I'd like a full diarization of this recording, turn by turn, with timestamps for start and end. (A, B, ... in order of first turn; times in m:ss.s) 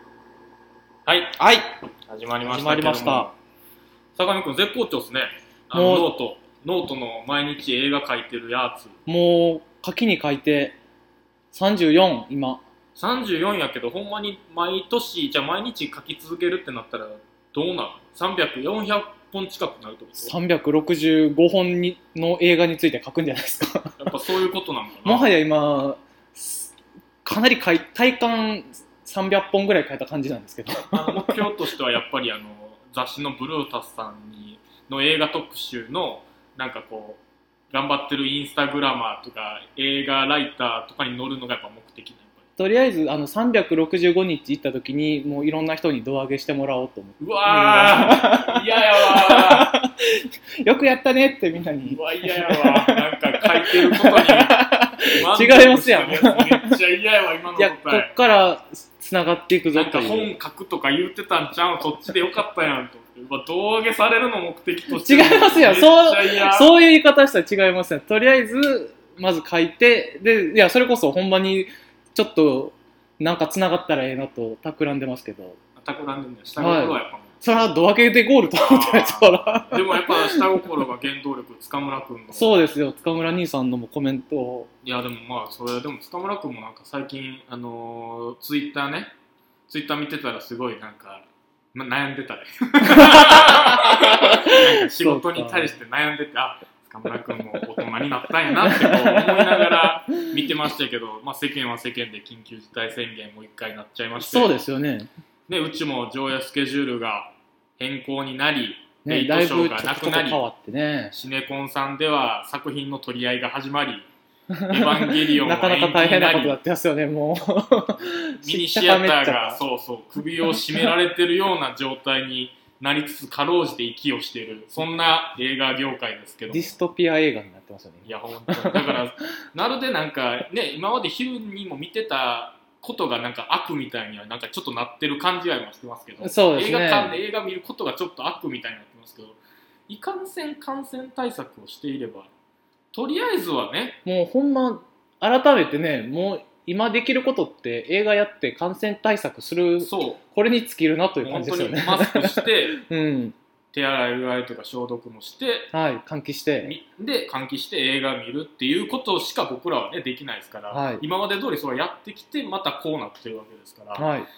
0:01.0-0:01.4 A
0:01.4-0:01.8 B
0:02.0-0:03.3 A
0:02.4-0:03.3 B
0:04.2-0:09.0 A
0:05.7-0:06.1 B
0:09.0-0:10.8 B
0:11.5-0:12.6 B
0:13.0-0:20.3 A
0:20.2-0:24.0 B
0:24.0-0:25.3 A
0:25.0-0:31.6 B
0:30.8-0:42.4 A
0:42.6-0:56.8 B
0:47.2-0:49.8 A
0:51.8-0:58.1 A
0:57.6-1:00.3 B
0:59.7-1:06.7 A
1:04.9-1:15.6 B
1:15.8-1:17.3 A
1:16.6-1:20.6 B
1:18.6-1:22.7 A
1:22.3-1:24.7 B
1:24.8-1:29.1 A
1:29.7-1:44.6 A
1:32.8-1:35.8 B
1:38.5-1:40.4 B
1:44.2-1:45.1 B
1:45.5-1:50.4 A
1:49.0-1:51.1 B
1:51.1-1:54.1 A
1:54.5-1:59.6 B
1:54.7-1:56.6 A
1:58.4-2:06.8 A
2:00.4-2:00.9 B
2:06.5-2:09.0 B
2:08.0-2:22.3 A
2:16.2-2:17.2 B
2:22.9-2:24.0 A
2:24.0-2:33.4 B
2:29.8-2:30.2 A
2:31.2-2:32.8 A
2:33.7-2:35.7 A
2:35.7-2:36.7 B
2:36.6-2:44.1 A
2:40.7-2:41.0 B
2:44.0-2:44.3 B